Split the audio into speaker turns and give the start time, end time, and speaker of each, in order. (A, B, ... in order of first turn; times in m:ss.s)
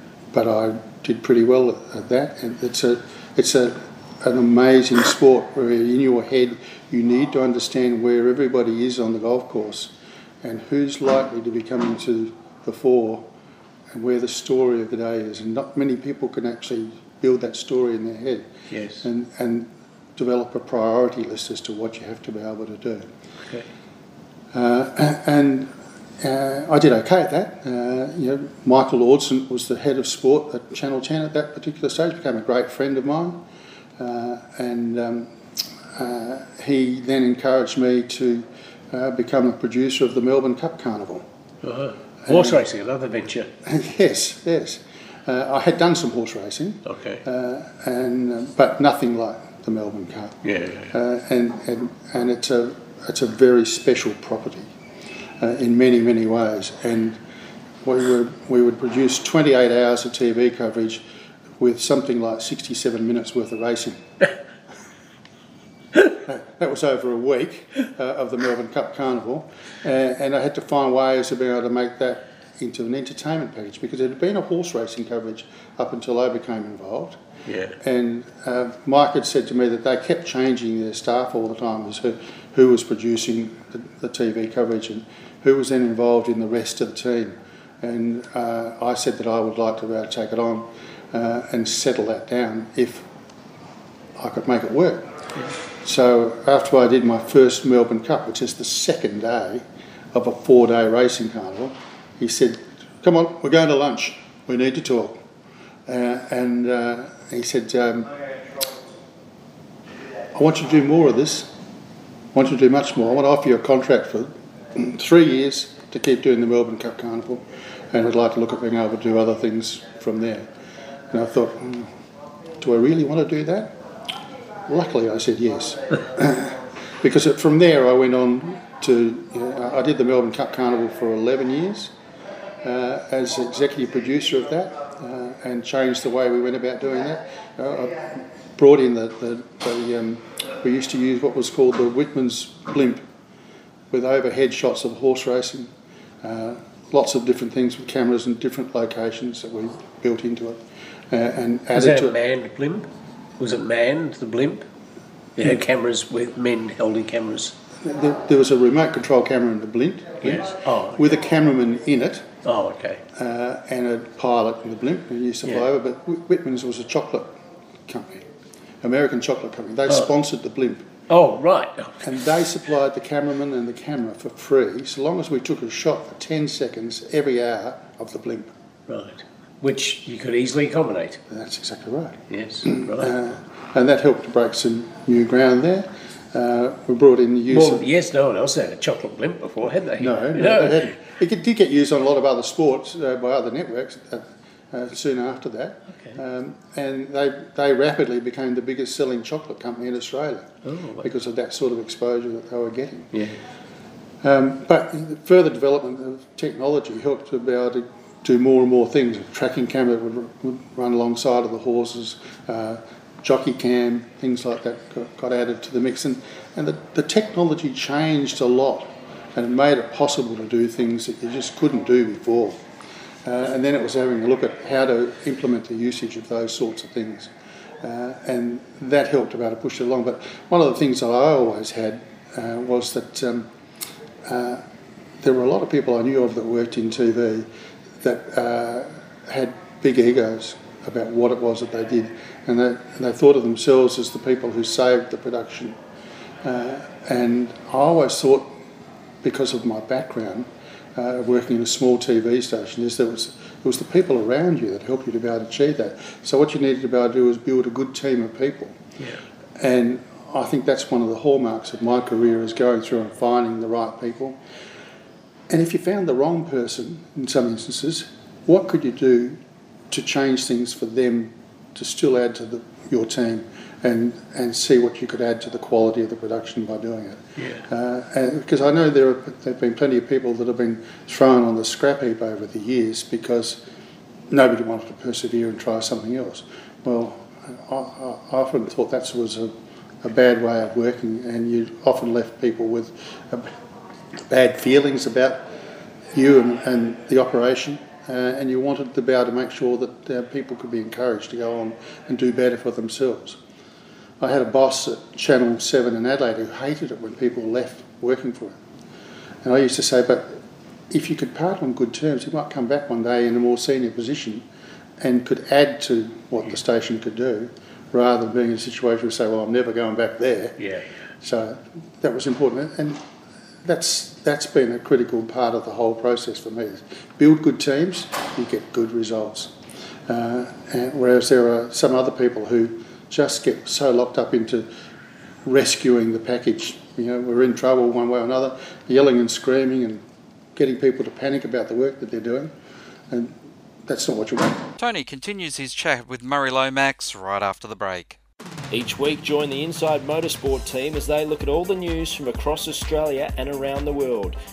0:00.3-0:13.3 A
0:13.9-0:18.5 A
0:18.7-0:19.1 B
0:19.0-0:23.1 A
0:24.5-0:33.4 A
0:34.0-0:35.3 A
0:35.9-0:41.3 A
0:41.6-0:43.5 B
0:42.3-0:42.6 A
0:43.6-0:54.7 A
0:46.9-0:47.2 B
0:50.4-0:50.9 B
0:55.4-0:57.2 A
0:57.8-1:01.0 A
1:01.6-1:04.0 A
1:06.2-1:17.2 A
1:17.5-1:17.8 B
1:17.8-1:33.1 A
1:34.2-1:35.1 A
1:35.8-1:45.2 A
1:45.9-1:48.3 A
1:50.3-1:51.5 A
1:52.3-2:00.5 A
2:01.1-2:01.9 A
2:02.6-2:03.8 A
2:04.7-2:11.9 A
2:12.6-2:23.0 A
2:23.9-2:25.7 A
2:26.2-2:32.2 A
2:31.8-2:32.9 B
2:33.4-2:34.7 B
2:35.4-2:37.6 B
2:37.8-2:42.3 A
2:40.2-2:41.1 B
2:42.4-2:43.0 B
2:43.1-2:48.3 A
2:48.8-2:50.9 A
2:51.1-2:52.1 B
2:52.0-2:58.5 A
2:58.9-3:01.2 B
3:01.3-3:07.9 A
3:02.3-3:03.1 B
3:07.5-3:10.9 B
3:10.0-3:23.2 A
3:20.6-3:21.1 B
3:24.2-3:42.6 A
3:43.2-3:53.5 A
3:54.2-3:54.6 A
3:55.2-3:57.5 A
3:58.0-4:05.8 A
4:06.4-4:08.5 A
4:09.2-4:18.8 A
4:19.6-4:24.4 A
4:25.5-4:43.6 A
4:37.4-4:37.6 B
4:44.3-4:53.6 A
4:54.3-4:55.4 A
4:56.1-5:03.4 A
5:04.2-5:08.6 A
5:09.4-5:14.4 A
5:15.0-5:20.6 A
5:20.6-5:20.9 B
5:21.2-5:23.0 A
5:23.6-5:29.6 A
5:30.1-5:34.7 A
5:35.4-5:40.0 A
5:40.6-5:42.6 A
5:43.1-5:44.7 A
5:44.8-5:48.2 C
5:48.7-5:54.4 D